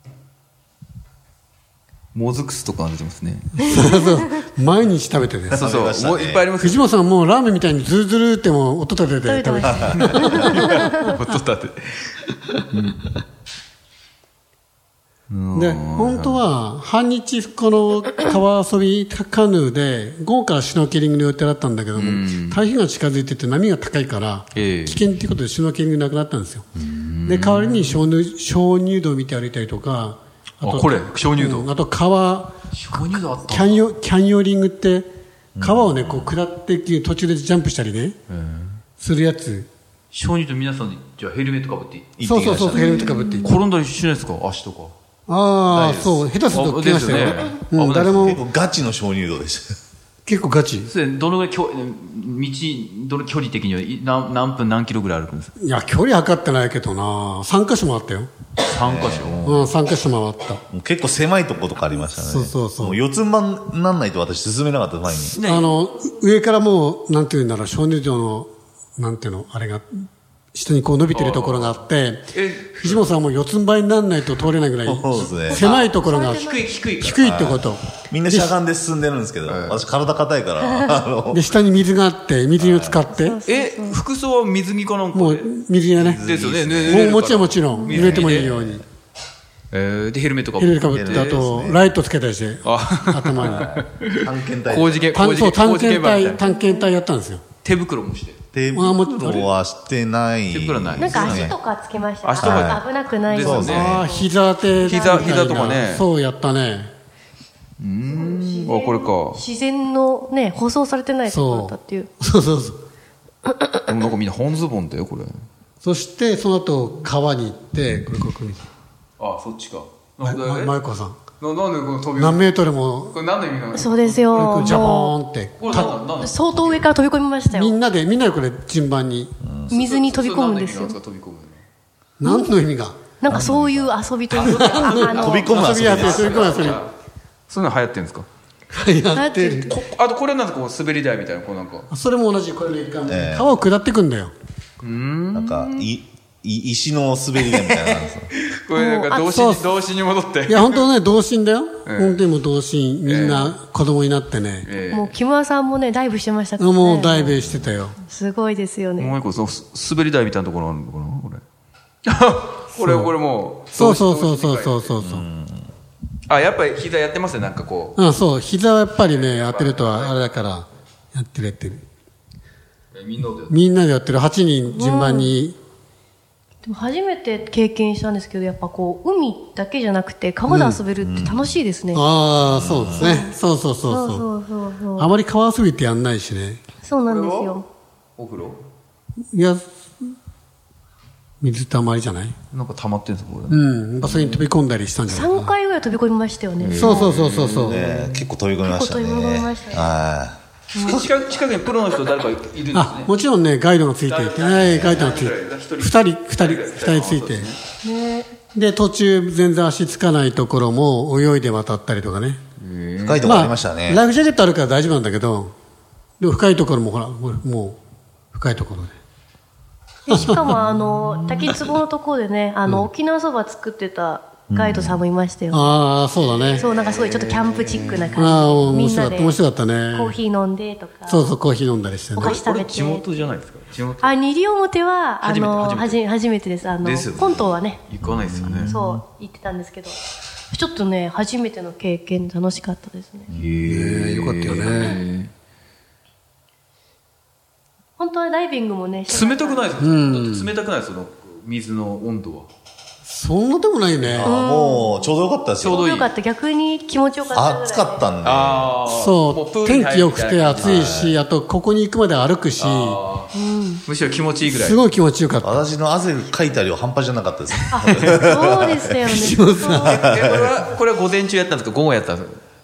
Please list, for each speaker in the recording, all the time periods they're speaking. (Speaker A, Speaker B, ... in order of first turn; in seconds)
Speaker A: 2.1-3.8, 5.5-6.8, 9.9-12.1, 12.7-13.1, 15.3-16.4, 21.9-22.6, 24.6-25.0, 26.8-28.0, 30.6-31.7, 32.7-33.9, 38.3-38.8, 40.1-42.2, 43.4-44.9, 46.1-48.4, 50.9-55.5, 58.6-59.7, 65.2-65.7, 71.1-71.8, 72.3-73.1, 75.6-77.4, 79.5-79.8, 83.5-85.5, 86.2-88.8, 89.7-91.4, 92.6-96.4, 97.6-98.4, 99.2-99.5, 100.5-101.5, 102.2-104.0, 104.8-106.1, 107.8-109.4, 113.8-115.4, 119.2-120.7, 121.4-122.5, 123.1-125.0, 125.6-126.9, 129.7-131.6, 134.3-136.9, 137.5-138.3, 139.7-141.9, 144.8-145.9, 147.4-150.8, 151.9-152.2, 153.1-153.5, 154.7-155.2, 159.0-161.4, 162.1-164.9, 166.3-168.0, 168.9-170.3, 172.9-173.6, 187.1-187.6, 188.2-188.6, 192.5-194.5, 196.6-198.3, 200.8-203.1, 204.1-207.6, 212.6-213.4, 220.4-221.1, 226.2-228.3, 232.2-234.2, 235.2-236.0, 236.8-238.8, 243.3-245.3, 249.1-252.5, 255.6-256.1, 258.2-261.1, 262.6-263.3, 263.9-264.8, 269.9-272.4
Speaker B: 3.6-5.7, 6.6-10.8, 15.5-26.7, 27.3-32.6, 33.4-35.1, 35.6-38.2, 39.0-39.7, 42.2-43.6, 45.3-48.4, 50.2-50.9, 55.6-58.3, 59.4-60.6, 62.2-63.0, 65.4-78.6, 81.3-83.4, 85.1-86.2, 86.8-88.8, 90.6-93.7, 95.1-97.4, 98.7-99.5, 103.6-106.9, 111.2-112.8, 115.8-118.7, 120.2-121.2, 122.2-123.2, 124.3-126.0, 127.5-129.3, 132.2-133.0, 134.4-136.8, 138.7-139.7, 141.9-144.3, 149.1-149.7, 150.5-154.7, 156.6-158.0, 162.8-163.1, 163.7-165.2, 167.9-171.8, 173.5-175.6, 180.5-180.8, 181.9-184.3, 185.0-186.6, 189.3-190.1, 191.4-192.3, 193.5-195.5, 196.8-197.9, 202.7-207.5, 208.5-212.4, 213.2-215.5, 216.2-217.8, 218.3-218.9, 220.1-220.6, 222.7-222.9, 225.5-226.7, 228.2-230.2, 231.1-232.4, 243.7-245.0, 249.8-250.5, 253.1-254.4, 258.9-263.0, 264.5-265.6, 269.1-270.0
Speaker C: 3.7-4.2, 9.2-10.9, 42.8-43.5, 75.5-76.7, 80.6-80.9, 83.1-84.0, 96.4-96.9, 101.0-105.8, 108.1-112.1, 123.7-127.8, 129.7-131.0, 133.2-135.4, 139.2-139.7, 148.8-149.1, 154.9-157.4, 158.1-159.1, 174.7-175.3, 176.6-182.1, 182.9-183.3, 183.9-185.1, 186.8-187.7, 195.1-197.2, 198.6-199.9, 200.7-201.0, 207.8-208.3, 220.1-225.8, 226.6-229.4, 229.9-231.3, 232.2-233.2, 234.0-237.8, 238.7-240.0, 240.5-243.3, 248.0-249.8, 254.2-255.1, 255.6-258.1, 263.3-263.8, 267.7-270.0
Speaker D: 5.5-6.5, 9.7-10.3, 35.5-36.3, 42.2-43.1, 45.7-46.2, 47.1-47.4, 48.2-49.8, 58.8-59.5, 60.7-65.4, 74.8-75.6, 77.2-81.5, 82.6-83.0, 86.0-87.2, 87.9-88.3, 90.9-91.9, 93.4-95.2, 98.5-101.6, 102.4-102.8, 103.4-104.1, 129.4-129.8, 133.3-134.0, 135.2-136.6, 143.1-143.5, 145.3-148.3, 165.0-165.7, 181.0-181.4, 182.4-183.2, 197.6-201.1, 204.6-205.1, 213.0-214.0, 224.5-225.0, 238.0-239.0, 243.3-243.6, 254.1-255.8, 257.3-258.7, 260.6-261.2, 265.4-269.3, 269.9-270.5